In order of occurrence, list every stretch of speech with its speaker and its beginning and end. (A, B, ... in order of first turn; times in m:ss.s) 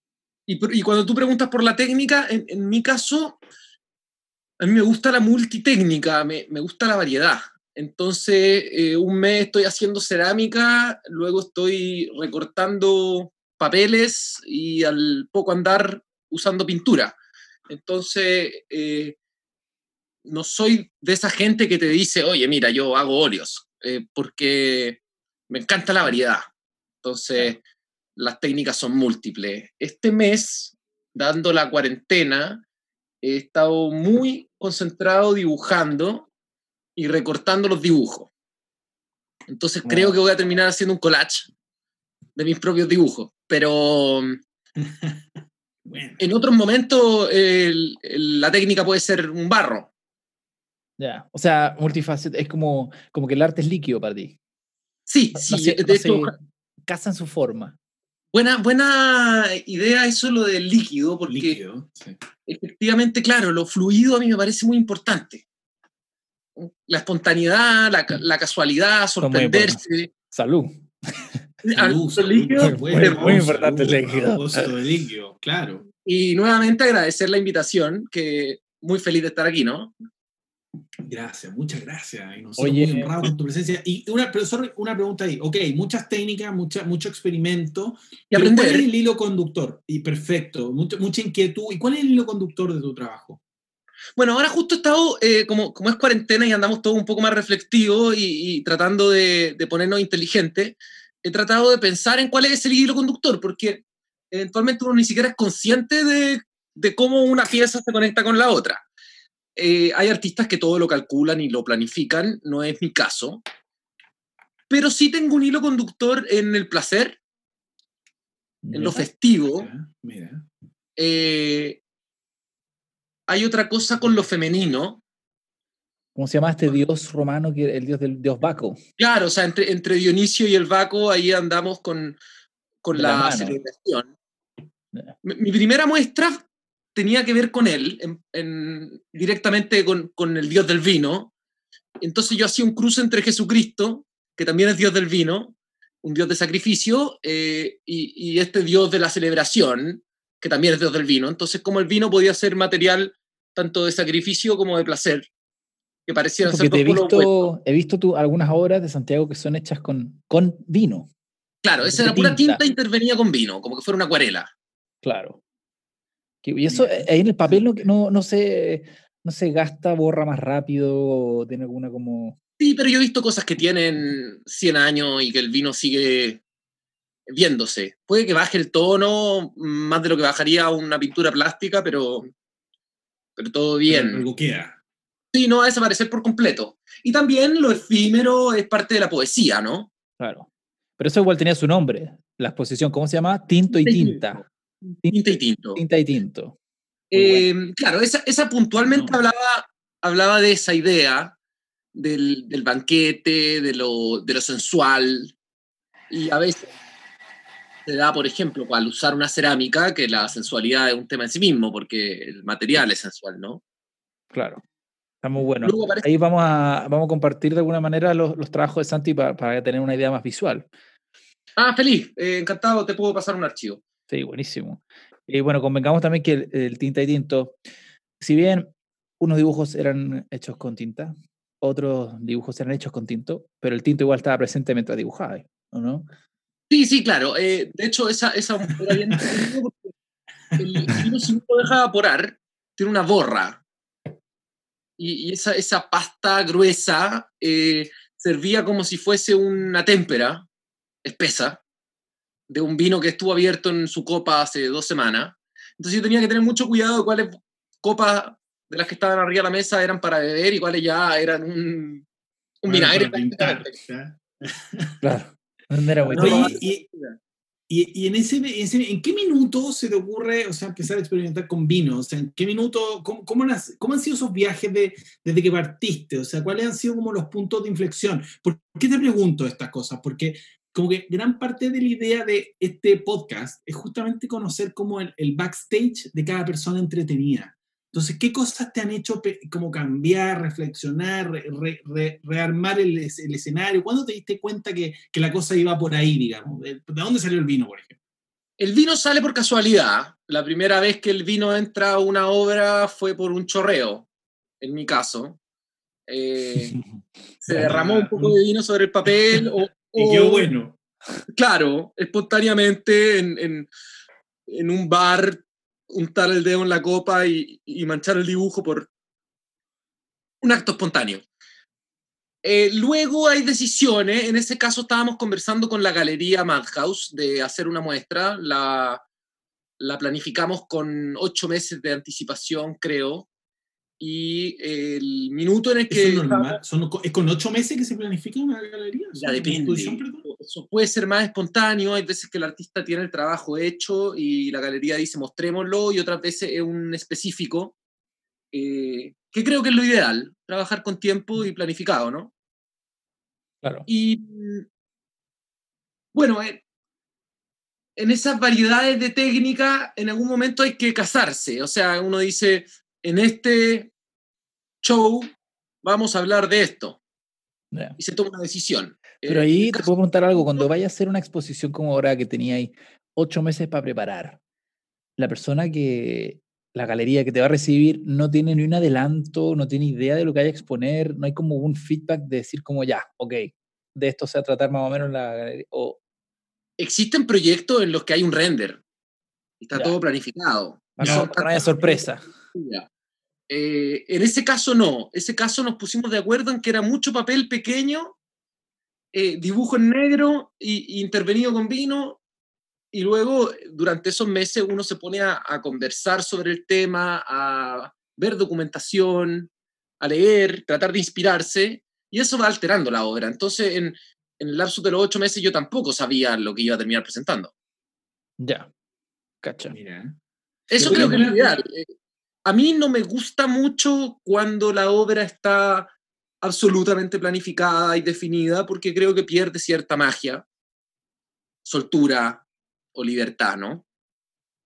0:00.5-0:03.4 A
0:04.6-0:17.2 A
0:17.7-0:19.2 A
0:20.2-0:26.5 A
0:27.0-0:27.6 A
0:28.2-0:32.6 A
0:33.2-0:36.3 A
0:37.0-0:38.3 A
0:39.5-0:41.5 A
0:39.8-0:40.2 B
0:42.4-0:44.4 A
0:44.8-0:45.2 B
0:45.8-0:46.2 B
0:46.2-0:49.9 A
0:51.0-0:54.4 C
0:55.1-0:56.3 A
0:55.3-0:56.3 C
0:56.8-0:57.8 C
0:58.3-1:01.6 A
1:01.3-1:02.2 B
1:02.5-1:05.4 A
1:06.6-1:10.1 A
1:09.2-1:11.4 C
1:11.6-1:13.4 A
1:11.7-1:15.8 B
1:12.6-1:14.7 C
1:16.0-1:19.9 A
1:21.0-1:33.4 B
1:22.6-1:23.3 C
1:28.3-1:28.9 A
1:34.2-1:48.8 A
1:49.6-1:53.4 A
1:54.7-1:57.2 A
1:58.6-1:59.0 C
1:58.7-1:59.7 A
1:59.6-2:00.5 B
2:01.0-2:01.8 A
2:03.3-2:05.0 A
2:06.2-2:08.8 C
2:09.0-2:12.2 A
2:12.8-2:14.1 A
2:12.9-2:13.6 C
2:15.2-2:21.3 A
2:22.0-2:35.3 A
2:36.1-2:37.5 A
2:36.4-2:41.1 C
2:41.6-2:44.5 A
2:41.8-2:42.6 C
2:45.0-2:45.4 C
2:46.4-2:52.4 C
2:46.7-2:47.8 B
2:52.6-2:56.4 A
2:57.3-3:02.3 A
3:03.4-3:04.2 A
3:03.9-3:04.8 B
3:05.3-3:09.9 A
3:10.2-3:14.4 C
3:13.7-3:15.8 A
3:15.0-3:16.6 C
3:17.1-3:21.3 A
3:17.1-3:17.5 C
3:18.9-3:19.2 B
3:21.9-3:25.3 A
3:26.1-3:26.7 A
3:27.8-3:33.6 A
3:34.3-3:34.6 C
3:35.2-3:40.7 C
3:35.6-3:36.1 A
3:41.6-3:43.8 A
3:44.1-3:47.6 C
3:48.2-3:56.1 C
3:56.7-3:59.9 A
4:00.5-4:01.0 B
4:00.6-4:03.6 A
4:05.0-4:10.4 A
4:11.0-4:11.6 A
4:12.5-4:22.0 A
4:22.6-4:23.7 A
4:22.7-4:25.0 B
4:25.0-4:26.6 C
4:26.1-4:27.2 A
4:26.1-4:26.8 B
4:27.7-4:58.0 B
4:58.6-5:04.1 A
5:04.6-5:05.4 A
5:06.1-5:06.8 A
5:07.4-5:10.5 A
5:07.5-5:08.4 B
5:09.9-5:10.8 B
5:11.3-5:13.7 A
5:14.5-5:18.9 A
5:20.4-5:21.2 A
5:22.4-5:29.0 A
5:29.8-5:33.3 A
5:34.0-5:36.6 A
5:35.9-5:40.2 B
5:39.2-5:47.8 A
5:48.5-5:52.3 A
5:53.9-5:54.6 A
5:56.1-5:56.6 A
5:58.0-6:03.9 A
6:04.8-6:05.3 A
6:05.8-6:07.0 A
6:08.0-6:10.7 A
6:09.2-6:14.4 C
6:15.2-6:26.0 C
6:26.8-6:28.8 A
6:29.6-6:32.0 A
6:31.0-6:32.2 C
6:31.0-6:31.8 B
6:32.5-6:32.9 A
6:33.5-6:38.2 A
6:39.1-6:42.2 A
6:42.9-6:57.5 A
6:58.4-6:58.7 C
6:59.4-6:59.8 C
6:59.7-7:00.2 B
7:00.7-7:01.3 C
7:00.7-7:01.9 A
7:00.8-7:01.6 B
7:02.4-7:10.4 A
7:11.6-7:12.4 A
7:12.9-7:13.8 A